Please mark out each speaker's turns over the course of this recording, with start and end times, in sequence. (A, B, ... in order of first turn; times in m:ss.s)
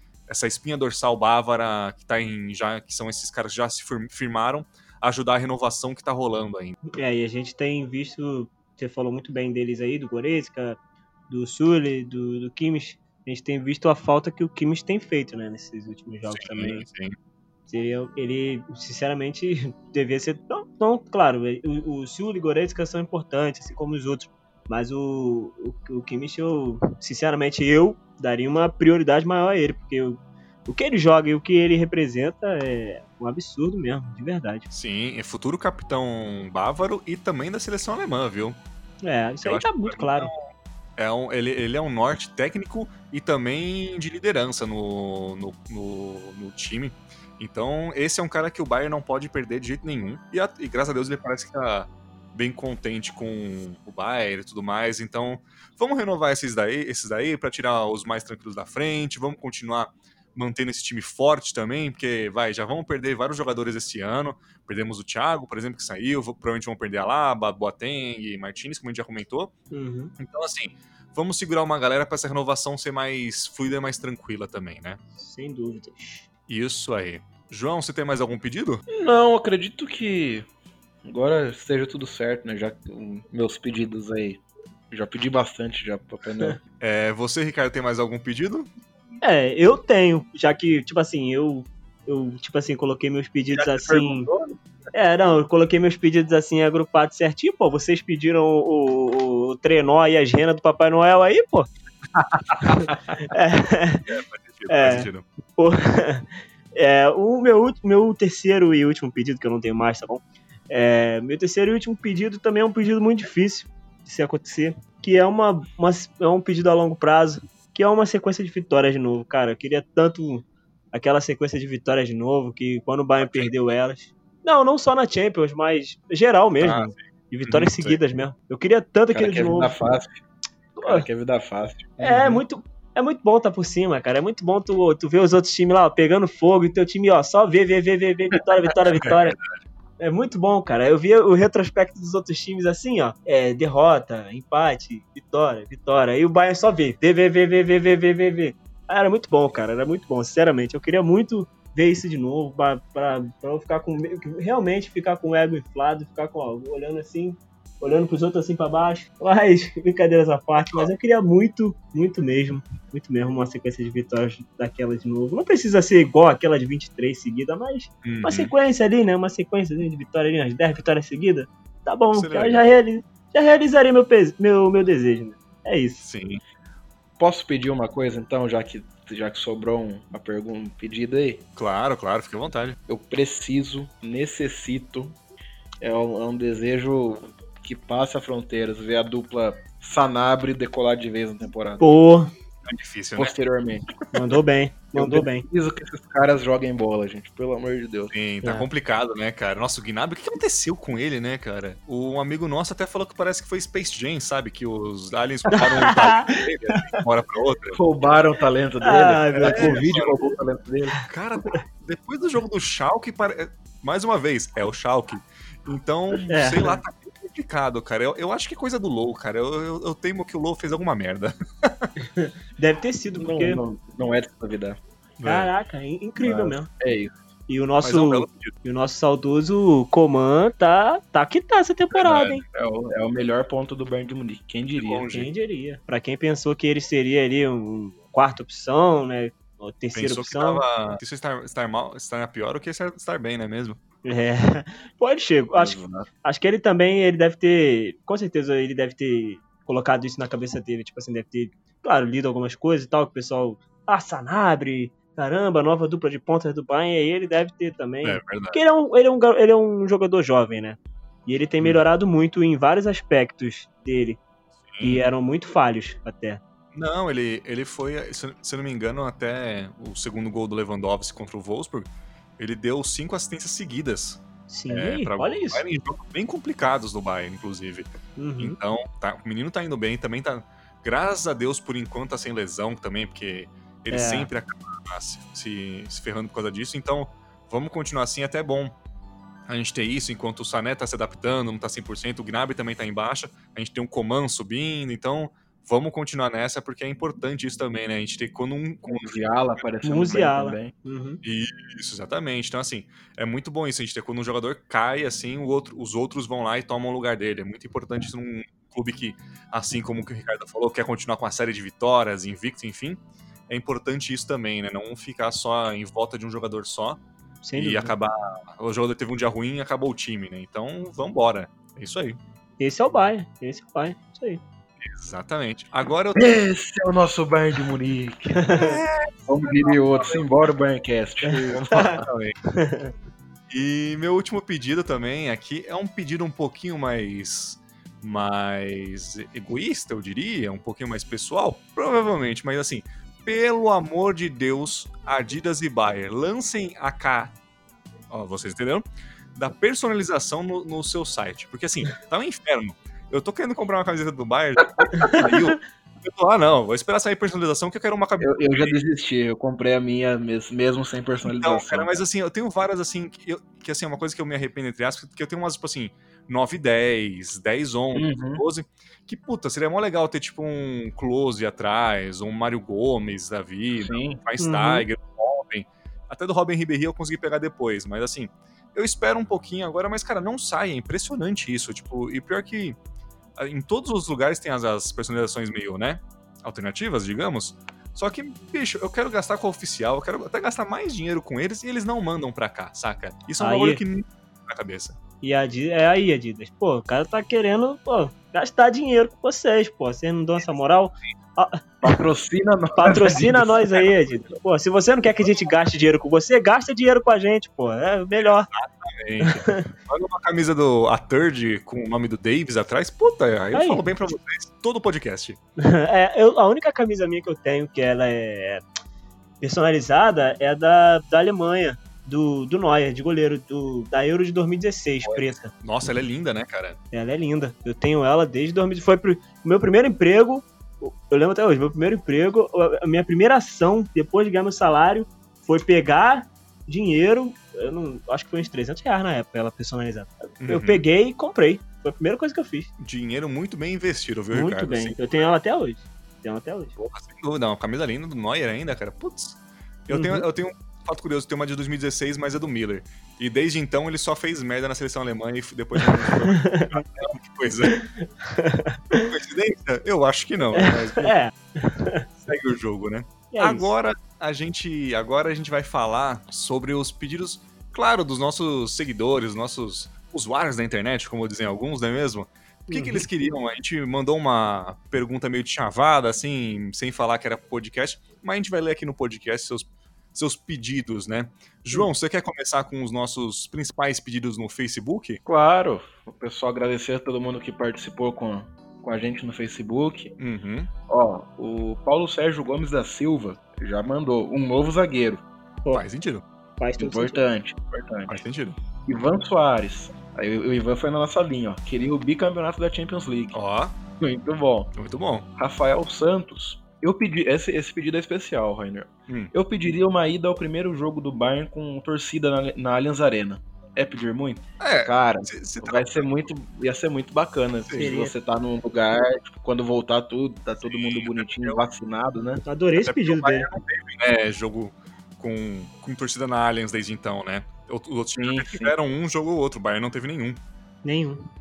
0:00.3-0:06.8 A
0:06.9-0:16.8 B
0:16.3-0:17.2 A
0:17.7-0:34.7 B
0:34.7-0:38.6 A
0:39.0-0:40.3 B
0:39.4-0:40.5 A
0:41.0-1:09.5 A
1:09.7-1:10.1 B
1:10.2-1:15.0 A
1:15.2-1:16.3 B
1:16.5-1:18.8 A
1:18.9-1:20.5 C
1:21.0-1:26.6 C
1:26.8-1:28.7 A
1:29.2-1:34.3 B
1:33.5-1:34.6 C
1:34.9-1:41.7 B
1:42.6-1:44.1 B
1:44.1-1:45.2 A
1:44.7-2:09.8 B
2:03.2-2:03.5 A
2:06.6-2:08.0 A
2:09.1-2:10.2 C
2:10.8-2:11.1 B
2:10.8-2:12.4 C
2:12.0-2:19.4 B
2:20.0-2:56.0 B
2:48.0-2:48.5 A
2:52.1-2:52.6 A
2:56.0-2:56.4 A
2:57.2-3:01.4 C
3:01.6-3:02.8 A
3:02.9-3:05.2 C
3:05.8-3:11.8 C
3:11.8-3:12.3 B
3:12.6-3:13.4 A
3:13.2-3:14.0 C
3:14.1-3:15.5 B
3:15.0-3:18.1 C
3:18.1-3:27.8 A
3:18.4-3:18.7 B
3:25.5-3:27.0 B
3:27.7-3:31.0 C
3:28.8-3:30.3 B
3:29.4-3:30.2 A
3:31.1-3:41.9 A
3:36.3-3:36.8 B
3:42.0-3:43.6 B
3:43.2-3:44.8 C
3:45.2-3:45.5 A
3:45.2-3:46.7 B
3:46.2-3:47.2 C
3:47.5-3:52.4 B
3:47.8-3:48.5 A
3:51.9-3:52.4 A
3:52.5-3:55.1 C
3:54.8-3:55.3 A
3:55.1-4:00.6 B
4:00.0-4:03.8 A
4:04.0-4:24.2 B
4:05.6-4:06.1 C
4:18.0-4:18.6 A
4:24.7-4:25.1 A
4:24.8-4:26.4 B
4:26.7-4:48.8 A
4:34.5-4:35.6 B
4:38.2-4:38.6 B
4:43.9-4:44.3 B
4:49.5-4:59.7 A
4:58.9-5:00.7 C
4:59.8-5:01.2 B
5:01.2-5:17.0 A
5:17.4-5:17.9 B
5:17.6-5:22.2 A
5:22.6-5:24.4 B
5:24.8-5:26.2 A
5:26.2-5:28.5 C
5:28.4-5:28.8 B
5:28.5-5:30.2 A
5:29.3-5:32.1 C
5:31.5-5:32.4 A
5:31.7-5:32.0 B
5:32.5-5:32.9 B
5:33.5-5:47.3 A
5:48.1-5:48.8 A
5:49.4-5:58.8 A
5:54.9-5:55.2 B
5:58.2-6:01.9 C
6:01.2-6:22.8 A
6:07.9-6:08.4 C
6:13.8-6:14.2 C
6:14.4-6:14.9 B
6:23.4-6:35.0 A
6:33.4-6:33.8 B
6:35.2-6:42.0 B
6:41.8-6:43.9 C
6:42.8-6:48.5 B
6:48.2-6:55.4 A
6:49.2-6:49.7 B
6:53.5-6:53.8 B
6:55.6-6:58.6 B
6:59.4-7:05.5 B
7:05.0-7:06.8 A
7:06.9-7:22.7 B
7:20.4-7:20.8 A
7:22.8-7:25.0 A
7:24.3-7:26.7 B
7:26.8-7:37.8 A
7:29.9-7:30.2 B
7:35.8-7:36.8 B
7:37.7-7:39.1 B
7:39.0-7:41.1 A
7:40.6-7:42.1 B
7:42.2-8:05.2 A
7:43.3-7:43.7 B
7:52.7-7:53.1 B
8:05.2-8:10.1 C
8:10.2-8:10.7 A
8:10.9-8:15.2 C
8:15.7-8:16.2 A
8:16.6-8:17.2 B
8:16.8-8:18.2 C
8:18.1-8:18.6 A
8:18.9-8:23.4 C
8:23.3-8:23.8 A
8:24.0-8:24.7 C
8:24.8-8:25.3 A
8:25.4-8:42.4 C
8:29.1-8:29.3 A
8:34.6-8:36.1 A
8:37.7-8:38.1 B
8:40.6-8:41.6 A
8:42.4-8:43.5 B
8:42.8-8:50.4 A
8:48.2-8:48.8 C
8:50.8-8:51.3 B